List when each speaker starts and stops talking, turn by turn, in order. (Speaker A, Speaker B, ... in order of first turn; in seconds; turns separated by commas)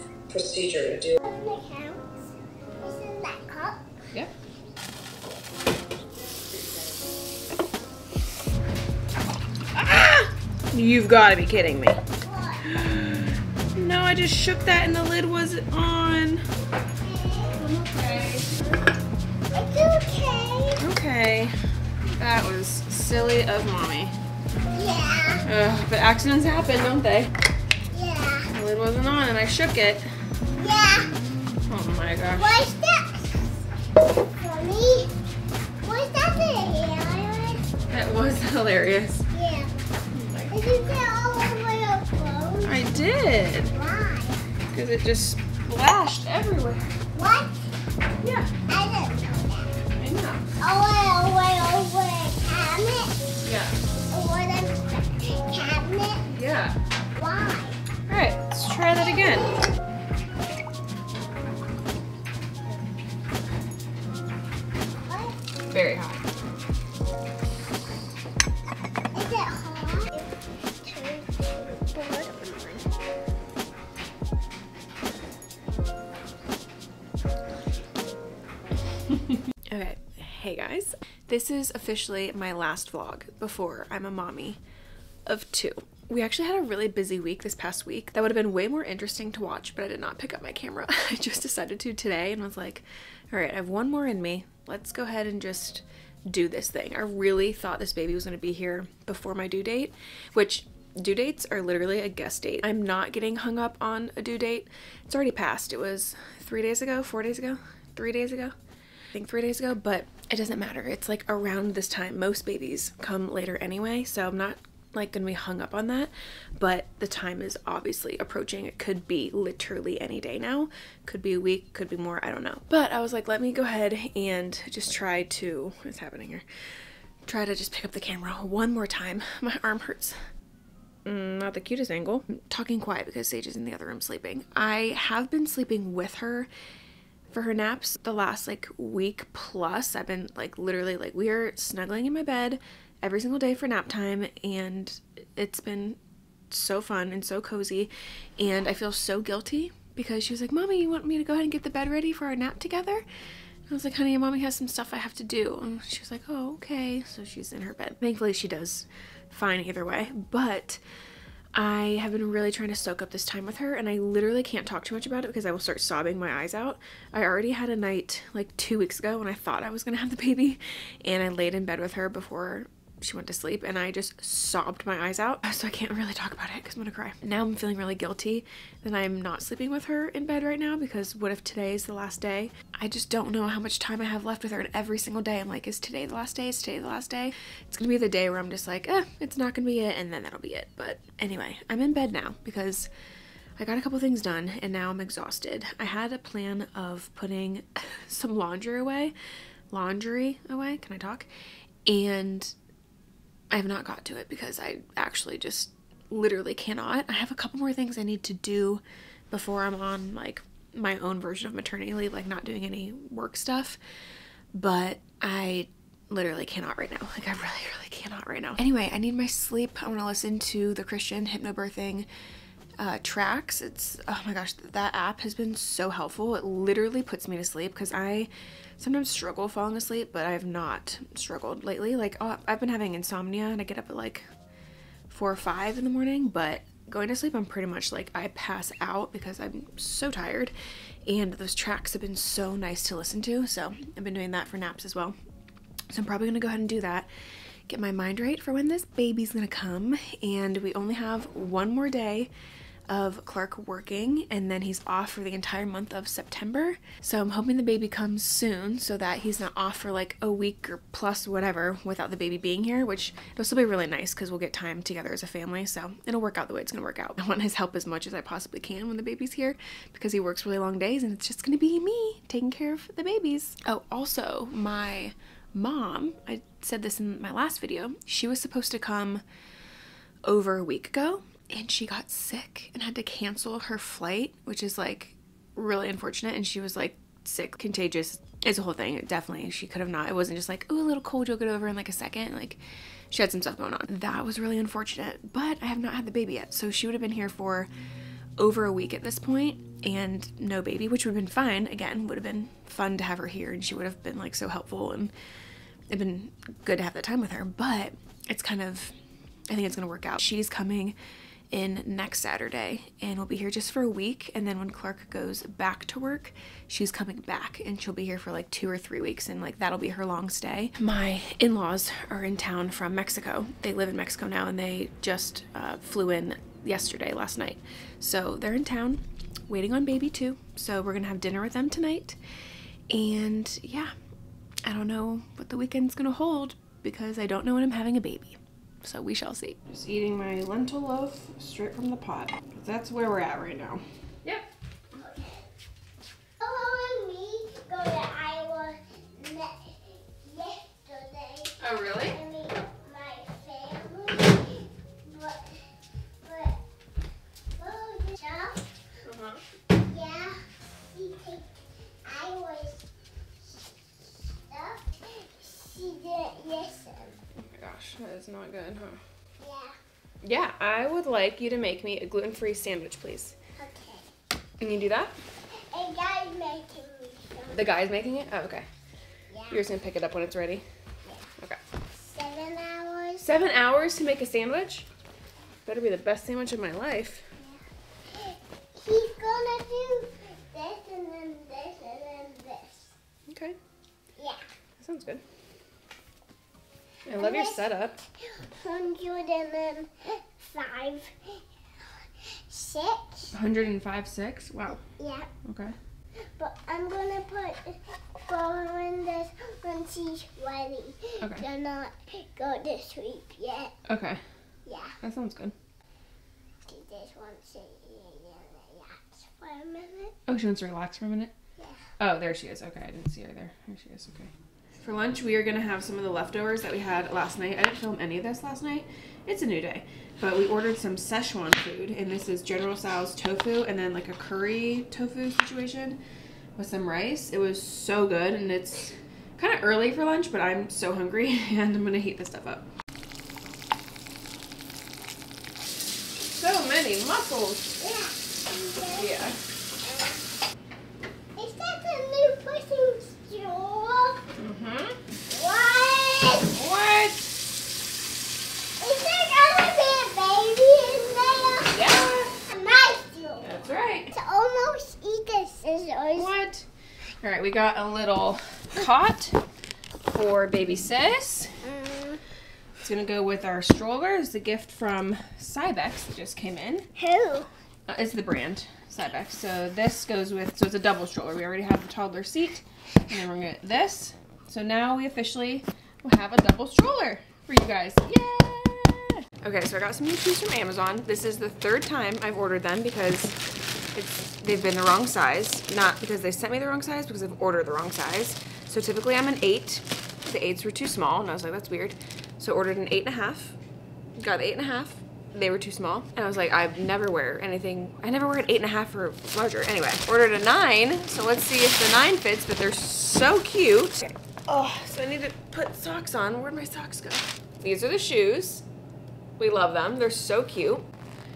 Speaker A: 0.3-1.2, Speaker B: 1.2-4.0, Speaker A: 9.8-12.0, Speaker B: 12.2-12.7, Speaker A: 12.6-16.4, Speaker B: 16.9-17.6, Speaker A: 17.6-18.8, Speaker B: 19.5-20.9, Speaker A: 20.8-21.6, Speaker A: 22.1-24.1, Speaker B: 24.7-25.4, Speaker A: 25.4-27.3, Speaker B: 27.9-28.5, Speaker A: 28.5-30.1, Speaker B: 30.6-31.1, Speaker A: 31.7-32.5, Speaker B: 32.4-33.6, Speaker B: 34.2-35.1, Speaker B: 35.8-37.7, Speaker A: 37.9-39.3, Speaker B: 39.3-39.8, Speaker A: 40.1-40.5, Speaker B: 40.5-43.0, Speaker A: 42.6-43.7, Speaker B: 43.7-44.5, Speaker A: 44.7-47.0, Speaker B: 47.1-47.7, Speaker A: 48.2-48.5, Speaker B: 48.6-49.8, Speaker A: 50.0-50.5, Speaker B: 50.6-53.3, Speaker A: 53.4-53.8, Speaker B: 54.1-56.3, Speaker A: 56.3-56.8, Speaker B: 57.1-57.8, Speaker A: 58.1-59.5, Speaker B: 59.0-59.8, Speaker B: 65.1-65.4, Speaker A: 65.7-66.2, Speaker B: 69.1-72.9, Speaker A: 79.7-84.6, Speaker A: 85.3-108.5, Speaker A: 109.1-126.5, Speaker A: 127.3-130.2, Speaker A: 131.1-136.5, Speaker A: 137.3-146.0, Speaker A: 146.5-153.0, Speaker A: 153.7-160.8, Speaker A: 161.6-192.9, Speaker A: 193.6-199.1, Speaker A: 199.7-201.3, Speaker A: 201.9-202.5, Speaker A: 203.5-213.8, Speaker A: 214.5-222.1, Speaker A: 222.8-234.3, Speaker A: 235.1-240.5, Speaker A: 241.1-245.2, Speaker A: 245.9-247.1, Speaker A: 247.7-252.3, Speaker A: 252.9-279.2, Speaker A: 280.2-292.6, Speaker A: 293.1-297.7, Speaker A: 298.4-305.1, Speaker A: 305.9-308.9, Speaker A: 309.5-310.9, Speaker A: 311.5-332.2, Speaker A: 332.9-333.9, Speaker A: 334.7-344.4, Speaker B: 345.0-345.5, Speaker B: 346.4-355.7, Speaker A: 351.6-352.2, Speaker B: 356.2-356.6, Speaker B: 357.6-358.7, Speaker A: 359.0-359.4, Speaker B: 359.7-362.9, Speaker B: 363.4-367.2, Speaker A: 367.4-369.0, Speaker B: 369.4-369.8, Speaker A: 370.2-373.4, Speaker B: 373.6-374.1, Speaker A: 374.6-375.1, Speaker B: 375.5-377.7, Speaker A: 377.5-378.7, Speaker B: 379.3-379.6, Speaker A: 379.5-380.6, Speaker B: 382.0-383.4, Speaker A: 383.2-384.9, Speaker A: 385.7-387.3, Speaker B: 387.4-392.9, Speaker A: 393.3-393.6, Speaker B: 394.2-394.4, Speaker A: 394.8-395.2, Speaker A: 397.1-398.0, Speaker B: 397.1-397.7, Speaker B: 398.2-401.4, Speaker B: 402.5-403.3, Speaker A: 403.3-404.8, Speaker B: 404.9-405.3, Speaker A: 405.4-405.8, Speaker B: 406.3-413.8, Speaker A: 413.9-414.2, Speaker B: 414.6-414.9, Speaker A: 415.0-415.5, Speaker B: 416.7-420.1, Speaker A: 420.3-421.3, Speaker B: 421.6-421.8, Speaker A: 422.0-436.0, Speaker A: 436.6-442.7, Speaker A: 446.2-447.8, Speaker B: 447.8-449.1, Speaker A: 448.9-449.4, Speaker B: 449.8-450.2, Speaker B: 451.4-454.2, Speaker A: 454.4-455.0, Speaker B: 455.3-456.6, Speaker A: 456.5-457.3, Speaker B: 458.8-461.9, Speaker A: 461.7-462.4, Speaker B: 462.5-466.3, Speaker A: 463.4-464.1, Speaker A: 466.1-466.7, Speaker A: 467.2-469.4, Speaker A: 470.0-471.6, Speaker B: 471.6-472.2, Speaker A: 472.8-476.9, Speaker B: 477.0-477.5, Speaker A: 477.9-493.4, Speaker A: 493.9-503.6, Speaker A: 504.2-518.6, Speaker A: 519.4-520.9